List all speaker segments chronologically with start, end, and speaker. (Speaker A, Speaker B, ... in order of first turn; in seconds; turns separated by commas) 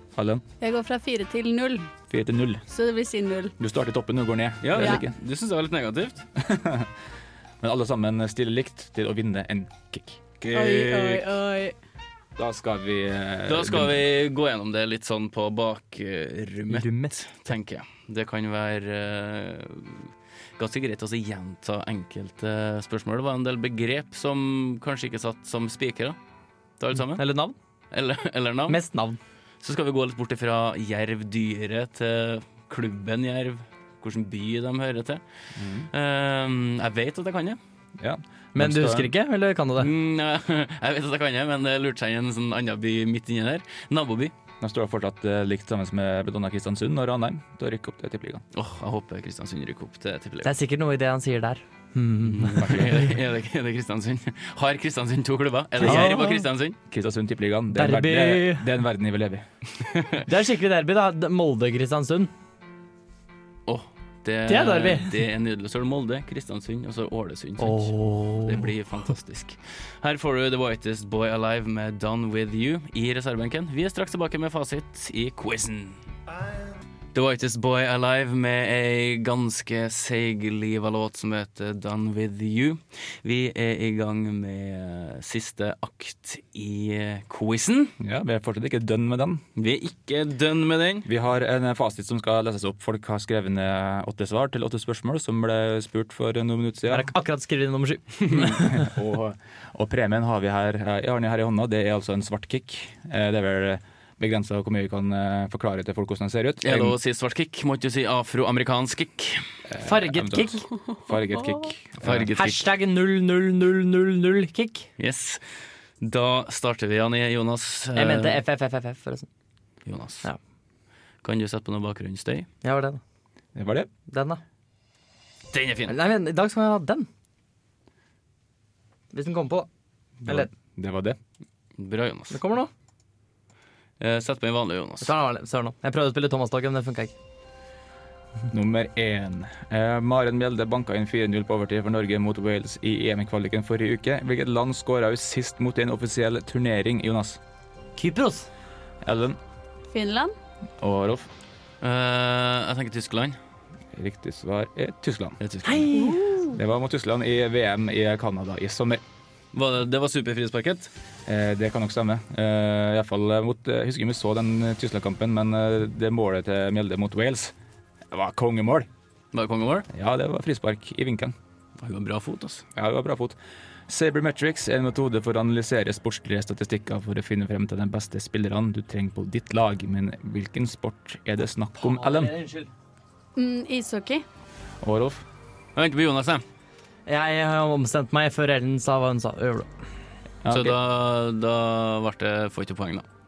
Speaker A: 0.2-0.4, Speaker B: 0.6-1.9, Speaker A: 2.1-2.6, Speaker B: 2.7-3.5, Speaker A: 3.6-5.1, Speaker C: 4.6-6.2, Speaker B: 4.8-5.0, Speaker A: 6.4-6.9, Speaker A: 7.6-10.2, Speaker C: 10.4-11.2, Speaker B: 10.5-11.8, Speaker A: 12.4-14.1, Speaker C: 13.5-26.2, Speaker D: 16.7-17.2, Speaker C: 26.8-27.2, Speaker D: 27.1-27.6, Speaker C: 27.9-28.8, Speaker D: 28.7-29.2, Speaker C: 29.6-35.2, Speaker A: 35.5-35.9, Speaker C: 35.9-37.6, Speaker A: 38.0-39.1, Speaker D: 38.5-39.9, Speaker C: 39.8-44.3, Speaker A: 44.6-48.4, Speaker C: 48.5-50.5, Speaker D: 50.4-53.1, Speaker C: 52.2-56.8, Speaker A: 52.5-53.0, Speaker A: 55.8-56.3, Speaker D: 55.8-56.5, Speaker A: 56.9-59.5, Speaker D: 57.7-58.7, Speaker C: 59.9-60.2, Speaker D: 60.2-62.3, Speaker C: 63.7-76.0, Speaker D: 64.5-65.1, Speaker D: 67.6-68.7, Speaker C: 77.1-88.0, Speaker A: 88.0-89.4, Speaker C: 89.6-91.1, Speaker A: 91.0-97.1, Speaker D: 96.9-98.9, Speaker A: 98.3-107.0, Speaker C: 106.6-109.5, Speaker A: 109.7-112.3, Speaker D: 109.8-110.7, Speaker B: 111.0-111.6, Speaker C: 112.0-112.7, Speaker D: 112.3-114.9, Speaker C: 115.0-115.4, Speaker C: 116.0-118.4, Speaker D: 117.9-119.3, Speaker C: 119.9-120.3, Speaker C: 121.2-122.5, Speaker D: 122.6-123.0, Speaker A: 123.5-123.9, Speaker D: 124.1-124.4, Speaker C: 125.5-125.9, Speaker D: 125.9-127.1, Speaker D: 129.1-129.7, Speaker A: 130.2-131.2, Speaker D: 130.2-130.5, Speaker C: 131.8-132.4, Speaker D: 132.3-132.7, Speaker C: 134.0-135.1, Speaker D: 135.0-137.1, Speaker A: 138.5-147.4, Speaker D: 148.0-148.5, Speaker A: 149.0-149.4, Speaker B: 149.9-150.3, Speaker A: 150.8-151.3, Speaker C: 151.8-153.4, Speaker A: 153.9-155.4, Speaker C: 155.4-155.9, Speaker D: 155.6-156.5, Speaker B: 156.0-156.4, Speaker A: 156.5-159.0, Speaker C: 159.5-160.9, Speaker A: 161.3-167.5, Speaker A: 168.1-168.9, Speaker C: 169.3-169.9, Speaker A: 169.9-171.3, Speaker C: 171.8-172.6, Speaker A: 172.8-173.4, Speaker A: 173.9-182.3, Speaker D: 181.8-182.7, Speaker B: 183.4-184.2, Speaker A: 184.8-185.2, Speaker C: 185.8-186.4, Speaker D: 187.1-189.7, Speaker A: 190.4-190.8, Speaker C: 190.5-193.1